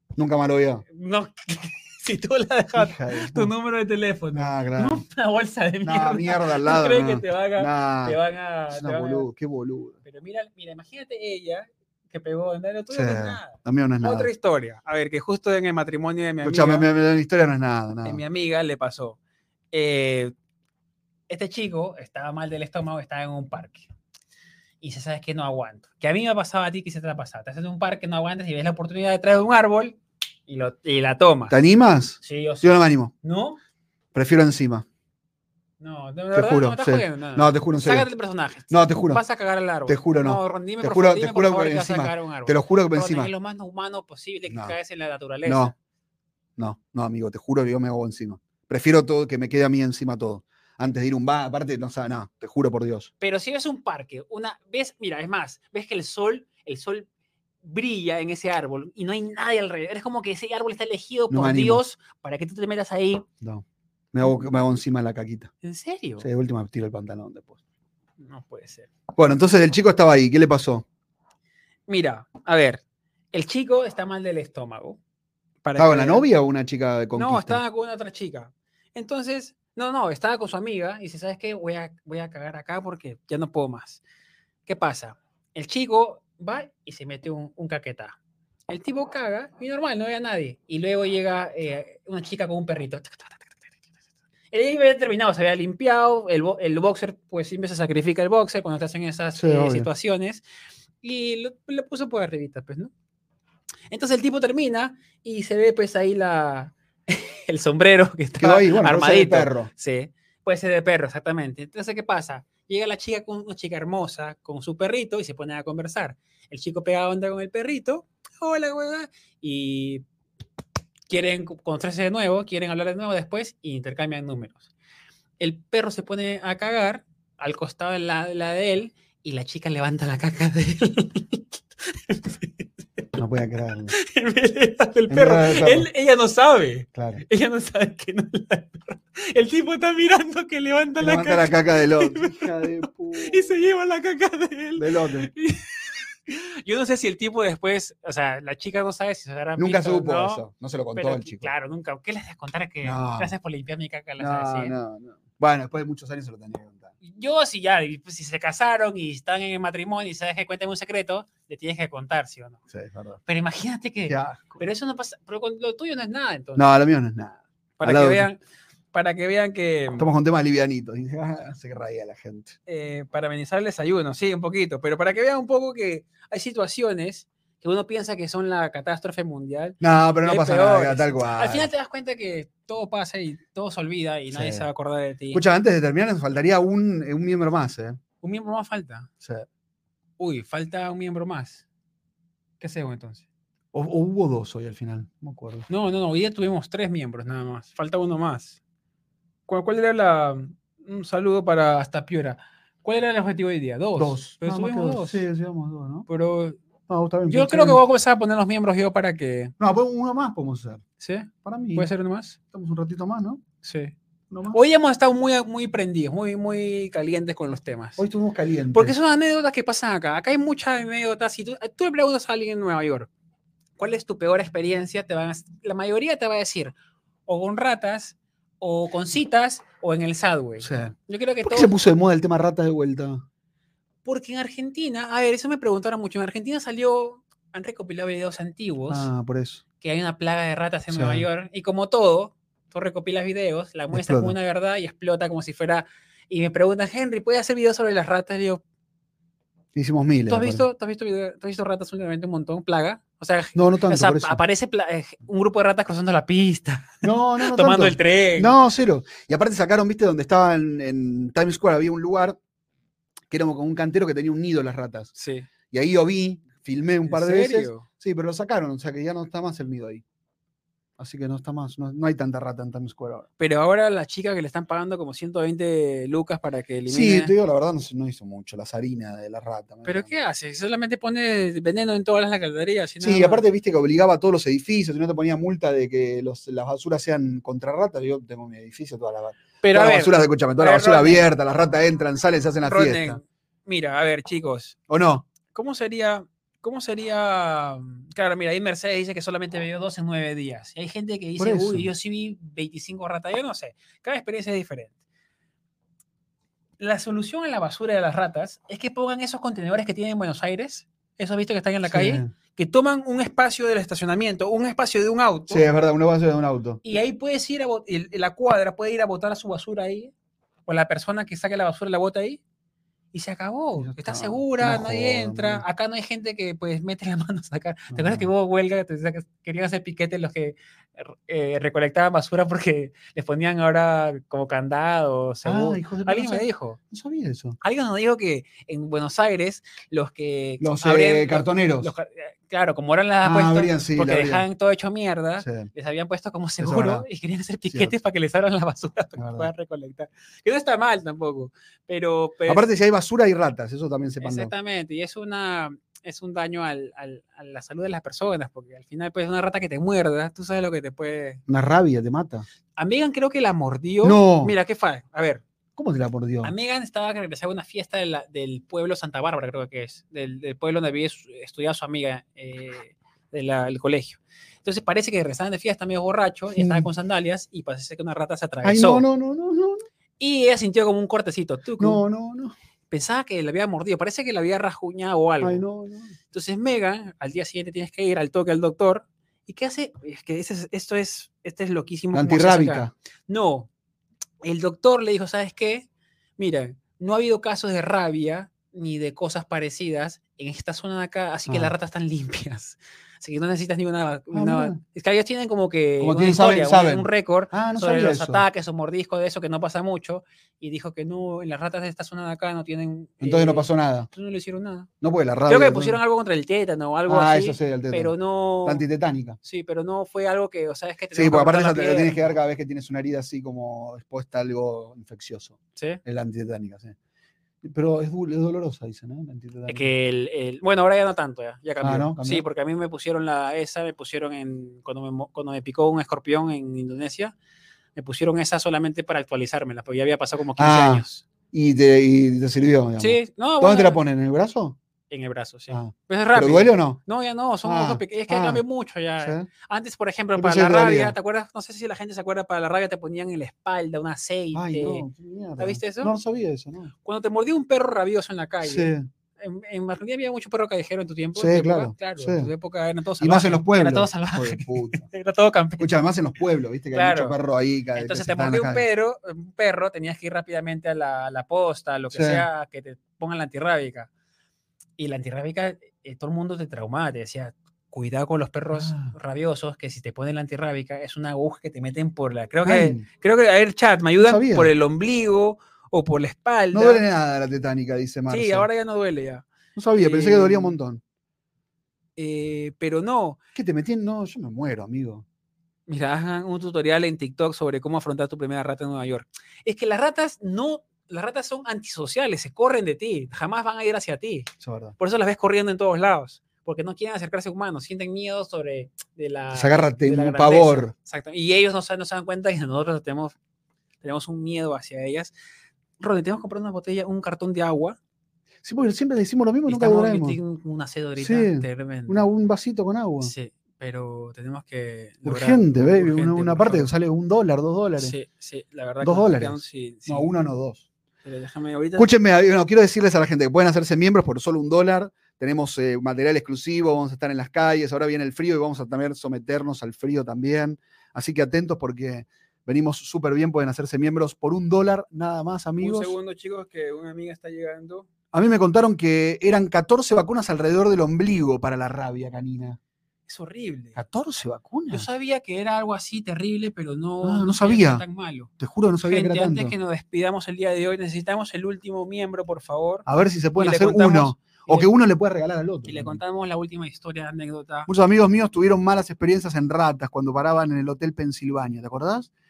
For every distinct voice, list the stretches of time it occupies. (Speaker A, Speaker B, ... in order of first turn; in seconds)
Speaker A: 0.1-0.8, 2.8-3.5, 4.3-5.0, 5.8-8.2, 8.7-10.0, 12.9-14.3, 16.4-18.2, 31.5-33.1, 34.1-34.9, 36.3-38.1, 38.7-39.2, 39.9-43.3, 44.5-44.8, 45.5-45.7, 46.6-53.1, 61.3-61.8, 63.4-65.5, 66.2-67.6, 69.1-70.8, 75.8-77.6, 99.3-99.9, 108.4-109.7, 133.2-134.0, 135.1-135.9, 136.9-137.2, 141.0-143.5, 144.8-145.3, 149.6-151.5, 152.8-153.3, 154.2-156.9, 162.7-163.2, 164.1-164.6, 166.6-168.3, 170.0-172.6, 179.8-181.7, 184.3-184.7, 185.3-188.0, 189.2-189.5, 193.7-195.7, 204.0-206.1, 206.9-207.8, 209.6-210.8, 211.4-211.9, 212.5-213.4, 214.3-214.6, 218.0-218.9, 230.6-230.9, 231.4-233.2, 238.9-239.6, 240.9-241.3, 243.9-244.3, 249.8-250.7, 253.6-254.4, 257.0-262.4, 263.3-265.1, 265.7-270.0, 271.0-273.3, 276.9-280.1, 283.0-293.2, 294.9-295.3, 301.4-301.9, 311.9-312.3, 315.5-316.8, 323.8-325.6, 327.9-328.3, 335.4-337.6, 340.6-341.9, 343.2-344.5, 345.4-345.7, 346.6-347.1, 349.2-349.5, 352.5-354.5, 361.5-362.5, 364.0-364.6, 365.8-366.5, 376.6-376.9, 378.6-379.9, 381.8-382.5, 385.4-386.1, 392.1-392.9, 401.5-401.7, 404.3-404.8, 406.0-408.4, 413.2-414.1, 415.0-416.0, 417.1-418.1, 418.6-419.4, 421.1-427.0, 427.6-429.9, 431.8-432.4, 440.6-444.8, 445.7-447.0, 447.6-448.6, 449.2-449.5, 450.4-451.2, 454.5-456.9, 458.6-459.1, 461.4-462.5, 463.2-465.1, 465.8-468.9, 472.1-472.5, 478.7-479.1, 482.6-483.1, 484.2-484.7, 486.7-488.7, 489.8-491.0, 493.6-495.2, 504.6-504.9, 509.5-510.9, 518.6-520.4, 521.2-523.3, 525.2-528.1, 529.0-530.9, 532.0-546.1, 548.3-552.8, 554.0-555.1, 557.2-558.0, 558.6-559.8, 563.1-566.2, 567.9-572.3
Speaker B: 0.9-9.3, 10.0-16.9, 18.1-19.2, 19.7-20.3, 21.3-23.9, 24.8-31.6, 32.2-33.6, 35.8-45.7, 53.2-57.1, 57.6-63.3, 65.6-66.3, 68.2-68.9, 71.9-72.8, 73.3-75.0, 75.6-76.3, 77.1-84.0, 84.7-88.2, 88.7-93.9, 94.5-100.5, 101.0-102.9, 103.9-120.0, 121.1-124.7, 125.4-133.1, 133.9-150.4, 151.0-154.8, 157.0-162.6, 163.3-166.7, 167.8-168.4, 168.9-170.1, 172.7-185.4, 188.2-189.1, 190.2-191.6, 192.6-193.2, 195.7-198.6, 199.5-205.2, 206.1-206.6, 207.3-209.5, 211.0-212.4, 213.6-213.9, 214.5-218.0, 218.7-223.1, 223.8-226.8, 227.3-231.7, 234.1-239.1, 239.8-248.6, 250.3-258.6, 265.2-265.5, 267.1-267.9, 273.4-277.3, 279.9-283.4, 289.6-291.3, 292.6-294.8, 295.5-304.9, 306.8-315.7, 316.8-320.1, 320.7-322.4, 323.1-336.8, 337.6-352.7, 354.2-361.4, 362.8-365.4, 366.4-379.1, 380.2-382.0, 382.9-385.7, 386.3-393.7, 394.4-395.9, 396.4-414.9, 415.5-418.8, 419.4-422.4, 429.7-437.4, 438.0-441.3, 443.0-444.0, 445.1-455.1, 455.6-456.1, 457.0-465.9, 466.9-467.4, 468.0-474.1, 475.0-487.1, 488.3-490.8, 492.2-493.4, 495.9-513.4, 514.0-515.3, 516.0-518.0, 519.7-522.3, 523.2-526.9, 528.0-530.3, 531.2-532.1, 545.8-548.1, 553.3-554.0, 554.9-558.5, 559.0-564.9, 565.9-567.9